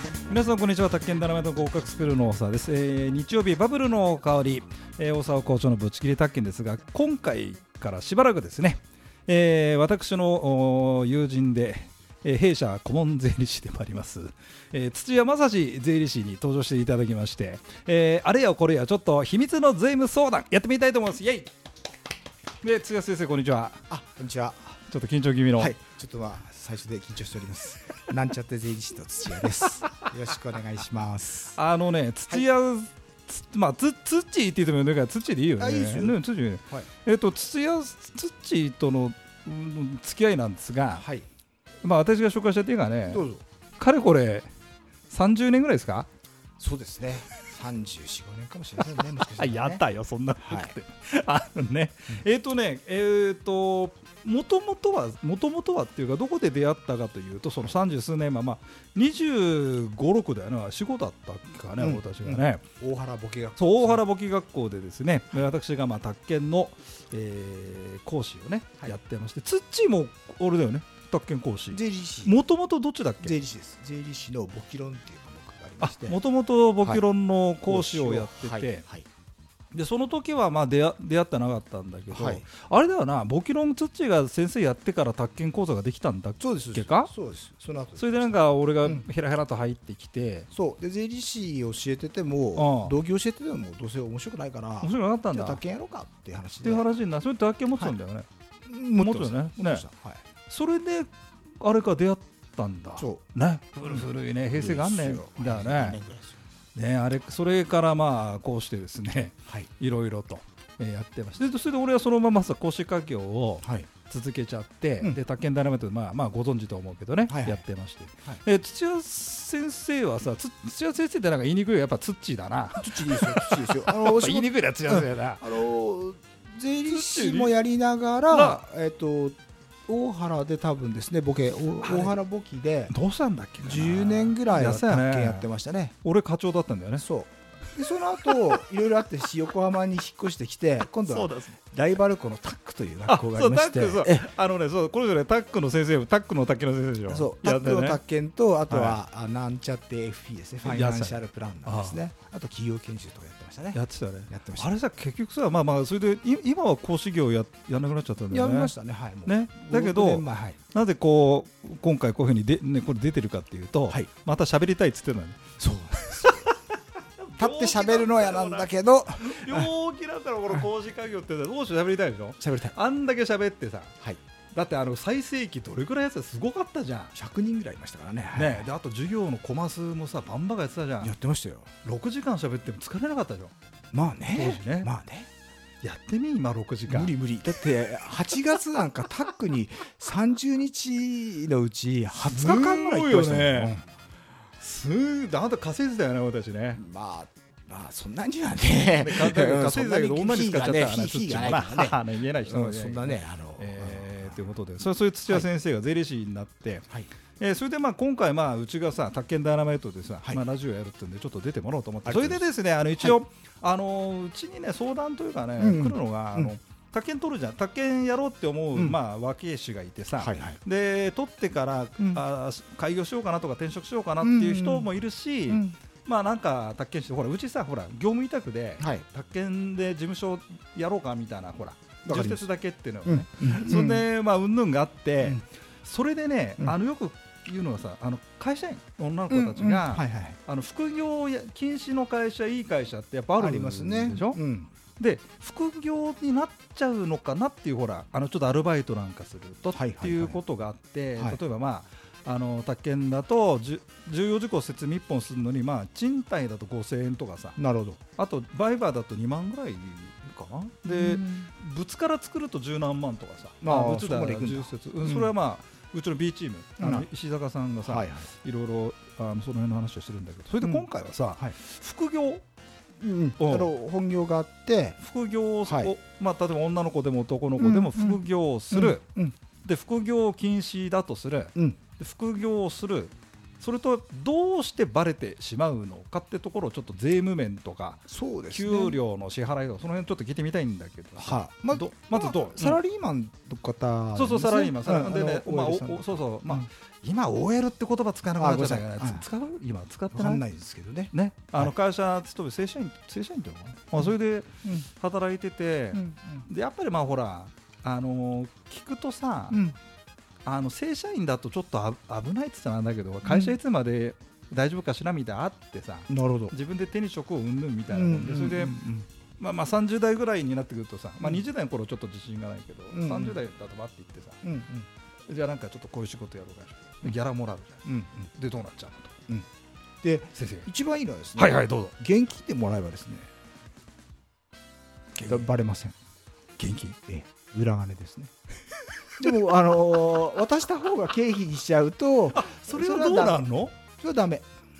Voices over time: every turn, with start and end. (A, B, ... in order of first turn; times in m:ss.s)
0:00.3-0:21.5 A
0:22.6-0:23.8 A
0:23.9-0:24.8 B
0:24.9-0:25.7 A
0:25.5-0:31.6 B
0:31.5-0:41.0 A
0:35.6-0:36.9 B
0:40.9-0:41.3 B
0:41.8-0:43.2 A
0:43.1-0:43.4 B
0:43.8-0:44.5 A
0:45.1-0:46.1 A
0:46.6-0:49.8 B
0:48.9-1:02.6 A
0:50.4-0:50.7 B
1:01.8-1:04.0 B
1:03.6-1:13.4 A
1:11.7-1:12.4 B
1:13.2-1:16.2 B
1:15.8-1:18.8 A
1:17.6-1:19.1 B
1:19.7-1:27.1 A
1:22.1-1:22.4 B
1:26.4-1:29.0 B
1:28.0-1:30.5 A
1:30.5-1:36.9 B
1:32.6-1:33.0 A
1:34.8-1:35.6 A
1:36.6-1:38.3 A
1:38.7-1:40.2 B
1:39.0-1:39.8 A
1:40.5-1:46.0 A
1:43.0-1:43.2 B
1:43.9-1:46.4 B
1:46.7-2:05.6 A
1:53.6-1:53.9 B
1:57.3-1:57.6 B
2:02.8-2:12.9 B
2:06.8-2:07.6 A
2:08.3-2:08.6 A
2:11.8-2:12.2 A
2:12.9-2:15.5 A
2:13.6-2:15.9 B
2:16.0-2:17.0 A
2:17.0-2:24.3 B
2:21.0-2:21.6 A
2:23.0-2:28.0 A
2:27.1-2:34.7 B
2:28.7-2:29.0 A
2:30.6-2:32.0 A
2:33.7-2:38.7 A
2:38.3-2:40.6 B
2:39.2-2:46.6 A
2:45.6-2:46.5 B
2:47.2-2:53.9 A
2:47.4-2:49.7 B
2:52.4-2:52.8 B
2:54.5-2:57.1 A
2:57.1-2:58.7 B
2:58.3-3:01.1 A
3:01.0-3:01.7 B
3:01.8-3:03.5 A
3:03.9-3:05.3 B
3:04.3-3:04.9 A
3:05.8-3:07.1 A
3:06.9-3:13.8 B
3:12.2-3:13.8 A
3:14.6-3:16.8 A
3:16.8-3:24.4 B
3:19.0-4:04.4 A
3:32.0-3:32.5 B
3:35.6-3:36.5 B
3:40.1-3:40.6 B
3:42.0-3:42.2 B
3:44.2-3:44.9 B
3:45.5-3:45.8 B
3:48.8-3:49.0 B
3:52.0-3:52.5 B
3:53.0-3:54.0 B
3:59.3-4:00.4 B
4:03.4-4:04.7 B
4:05.0-4:17.6 A
4:09.7-4:10.4 B
4:17.6-4:18.0 B
4:18.2-4:32.4 A
4:20.9-4:21.5 B
4:23.6-4:25.3 B
4:26.8-4:27.1 B
4:27.8-4:28.3 B
4:30.6-4:31.6 B
4:33.0-4:35.0 B
4:33.4-4:33.7 A
4:35.0-4:39.0 A
4:35.6-4:35.9 B
4:37.6-4:39.4 B
4:39.6-4:52.8 A
4:48.1-4:49.0 B
4:51.2-4:56.7 B
4:54.2-5:00.4 A
4:58.4-4:59.2 B
5:00.1-5:01.7 B
5:01.1-5:09.6 A
5:04.0-5:04.8 B
5:05.9-5:06.4 B
5:09.5-5:09.8 B
5:10.4-5:18.8 A
5:13.2-5:13.6 B
5:16.1-5:16.5 B
5:17.9-5:19.0 B
5:19.4-5:24.4 A
5:22.9-5:23.4 B
5:24.4-5:24.9 B
5:25.3-5:29.1 A
5:27.8-5:28.1 B
5:30.0-5:33.3 B
5:30.3-5:30.7 A
5:31.4-5:31.9 A
5:35.1-5:35.5 A
5:35.2-5:35.9 B
5:36.6-5:37.0 A
5:37.1-5:38.3 B
5:39.2-5:44.4 B
5:42.3-5:43.7 A